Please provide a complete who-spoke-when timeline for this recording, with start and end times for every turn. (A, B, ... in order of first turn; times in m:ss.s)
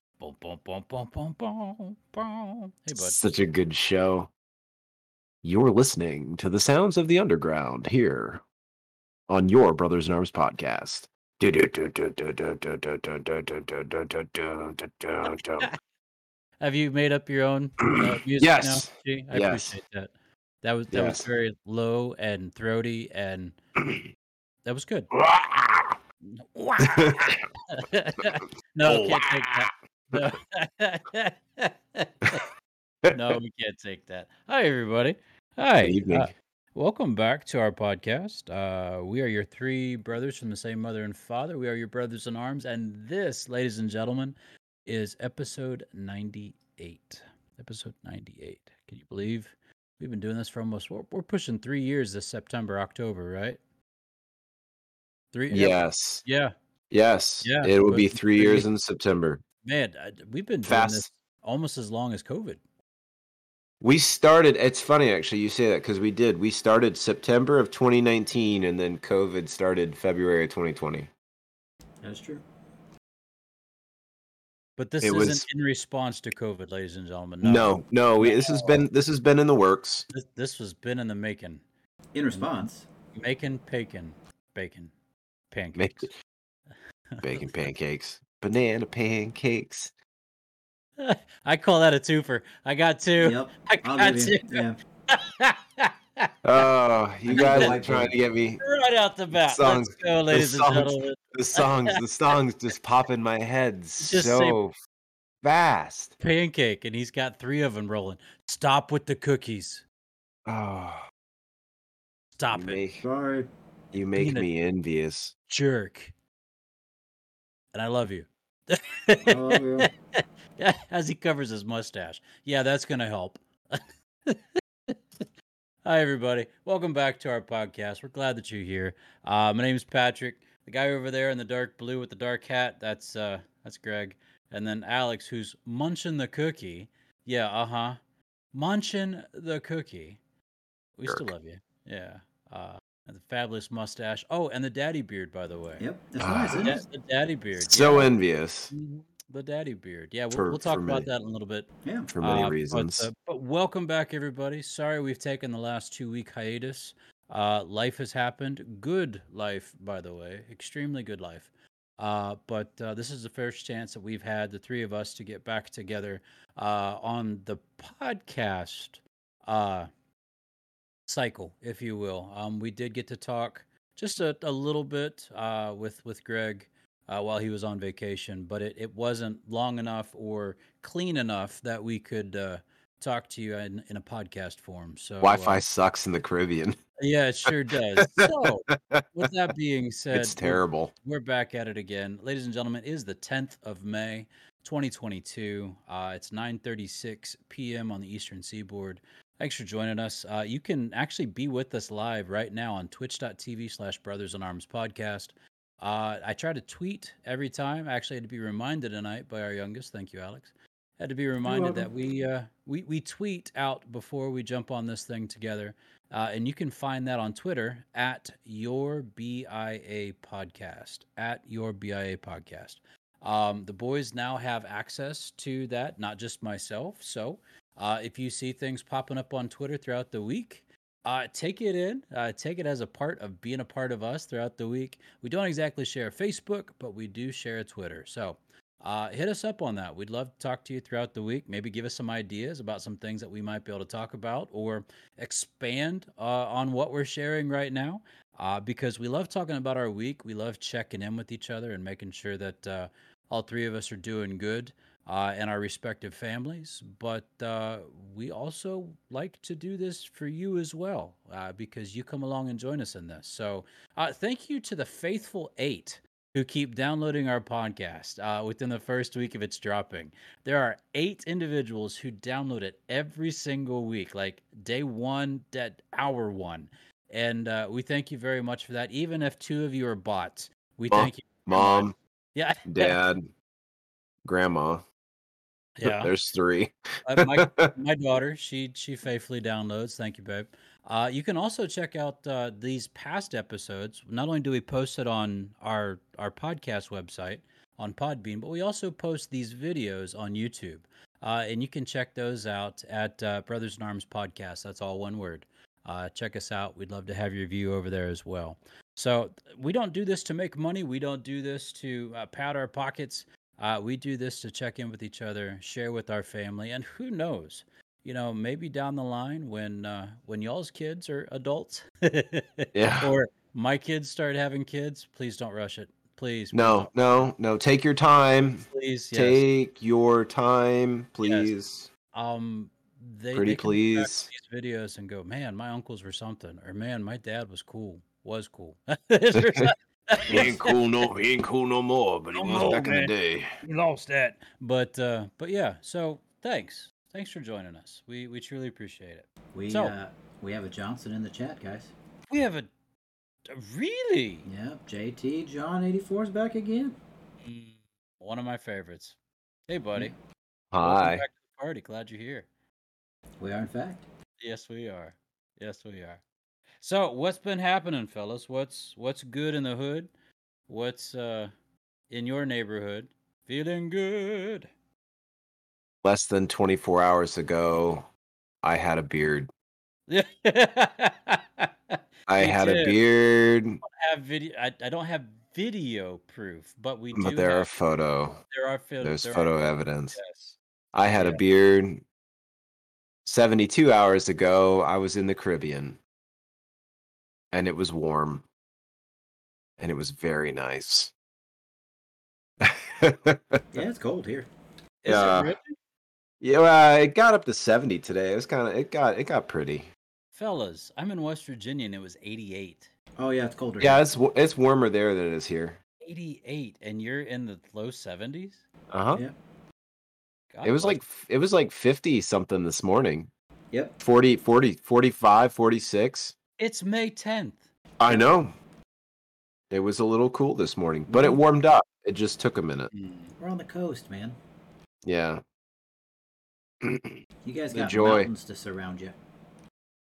0:00.2-0:03.4 A
0:02.9-0:04.3 B
0:05.4-0:08.4 B
0:09.3-0:15.7 B
0:16.6-0:23.6 A
0:17.9-0:19.8 B
0:20.9-0:21.2 B
0:23.8-0:24.0 B
0:24.6-0:25.1 A
0:25.1-0:26.0 B
0:26.3-0:32.4 A
0:26.8-0:27.4 B
0:28.9-0:29.6 B
0:33.0-0:33.3 B
0:33.1-0:53.6 A
0:35.8-0:36.3 B
0:55.3-0:56.5 A
0:55.5-0:56.2 B
0:56.9-0:59.4 B
0:57.4-0:58.7 A
0:59.6-1:02.6 A
1:00.6-1:01.1 B
1:03.8-1:11.1 B
1:12.0-1:12.4 C
1:14.8-1:18.8 A
1:15.0-1:15.4 B
1:17.4-1:20.1 B
1:20.1-1:21.6 A
1:22.1-1:22.9 C
1:22.3-1:24.9 A
1:25.5-1:26.1 A
1:25.8-1:26.1 B
1:27.1-1:27.7 A
1:27.2-1:29.9 B
1:31.0-1:36.3 A
1:33.2-1:34.8 C
1:36.4-1:38.6 B
1:37.3-1:38.1 C
1:37.3-1:37.7 A
1:38.6-1:41.9 A
1:39.3-1:44.7 B
1:44.0-1:44.6 A
1:45.4-1:46.2 B
1:46.2-1:49.8 A
1:50.4-1:51.0 B
1:52.3-1:52.8 A
1:52.5-1:53.0 B
1:53.0-1:53.5 C
1:53.9-1:55.3 B
1:54.2-1:54.4 A
1:55.5-1:56.1 A
1:57.7-1:59.9 A
1:59.3-1:59.9 C
2:00.6-2:05.2 A
2:05.8-2:18.0 A
2:18.5-2:20.2 A
2:21.0-2:25.8 A
2:25.8-2:26.8 C
2:26.2-2:26.7 B
2:26.5-2:28.1 A
2:27.6-2:28.7 B
2:28.7-2:49.9 A
2:30.3-2:31.1 B
2:31.8-2:32.1 C
2:32.1-2:33.1 B
2:51.1-3:05.6 A
3:05.2-3:06.8 B
3:07.0-4:43.0 A
3:08.0-3:09.2 B
3:10.1-3:10.9 B
3:31.4-3:31.9 C
4:40.9-4:41.9 B
4:42.6-4:43.3 B
4:44.2-4:44.8 B
4:45.8-4:46.1 A
4:45.8-4:47.7 B
4:47.0-5:27.3 A
5:22.7-5:23.1 B
5:26.5-5:31.9 B
5:28.7-5:29.4 A
5:31.2-5:31.5 A
5:32.1-5:40.8 A
5:33.3-5:34.3 B
5:39.3-5:39.7 B
5:40.3-5:43.5 B
5:42.3-5:49.9 A
5:49.5-5:51.9 C
5:52.3-5:52.7 A
5:53.5-5:54.5 A
5:54.4-5:57.0 C
5:57.4-5:59.2 A
5:59.7-6:00.1 A
6:00.7-6:01.2 B
6:00.8-6:02.4 A
6:03.4-6:04.0 C
6:04.4-6:06.2 A
6:06.8-6:10.1 A
6:10.7-6:11.5 A
6:12.1-6:14.7 A
6:16.0-6:18.1 B
6:18.6-6:19.5 B
6:20.1-6:23.0 A
6:22.3-6:23.8 B
6:23.9-6:27.7 A
6:27.2-6:28.4 B
6:28.4-6:31.4 A
6:29.0-6:30.2 B
6:30.9-6:32.0 B
6:33.2-6:36.0 B
6:37.5-6:38.4 B
6:39.8-6:41.1 B
6:42.6-6:43.6 B
6:43.7-6:44.5 C
6:45.0-6:45.8 A
6:45.0-6:45.6 B
6:46.4-6:49.9 B
6:50.3-6:52.9 A
6:53.2-6:54.0 C
6:53.8-6:55.8 B
6:56.0-6:58.6 A
6:58.9-6:59.2 B
7:00.5-7:01.0 A
7:00.6-7:03.3 B
7:04.0-7:06.3 B
7:06.6-7:07.6 A
7:08.0-7:08.5 B
7:09.7-7:12.9 B
7:11.1-7:11.4 C
7:12.9-7:13.3 A
7:13.4-7:14.4 C
7:15.0-7:15.4 B
7:16.8-7:17.2 B
7:17.4-7:19.2 C
7:17.7-7:18.3 B